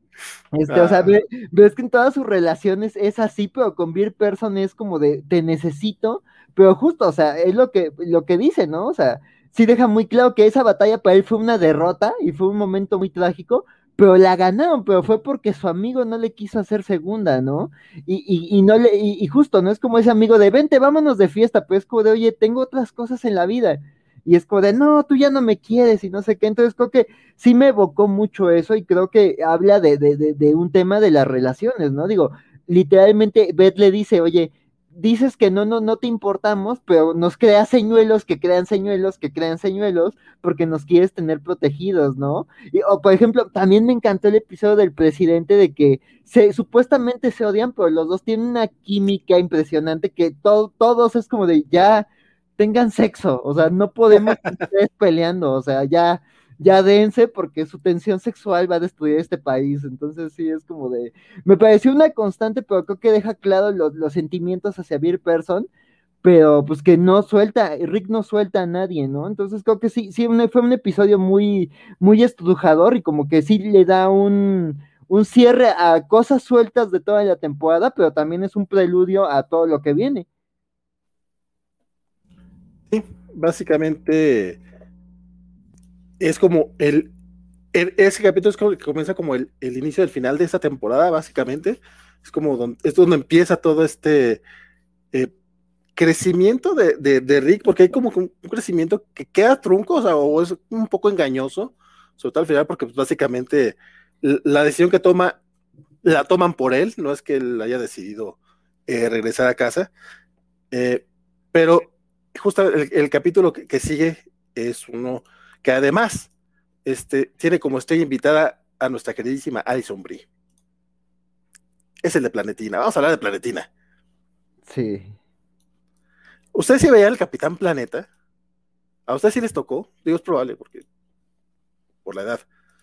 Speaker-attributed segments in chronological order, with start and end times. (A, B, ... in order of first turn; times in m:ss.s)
0:00.5-0:52.1 A
0:00.7-0:01.2 B
0:52.6-1:05.7 A
1:06.2-1:20.2 A
1:22.9-1:24.6 B
1:26.2-1:27.1 B
1:27.7-1:34.4 B
1:36.0-1:45.4 B
1:46.0-1:49.9 B
1:50.7-1:56.3 B
1:56.8-2:00.2 B
2:02.0-2:03.7 B
2:04.6-2:05.1 A
2:06.5-2:08.1 B
2:09.1-2:10.8 B
2:12.0-2:12.4 B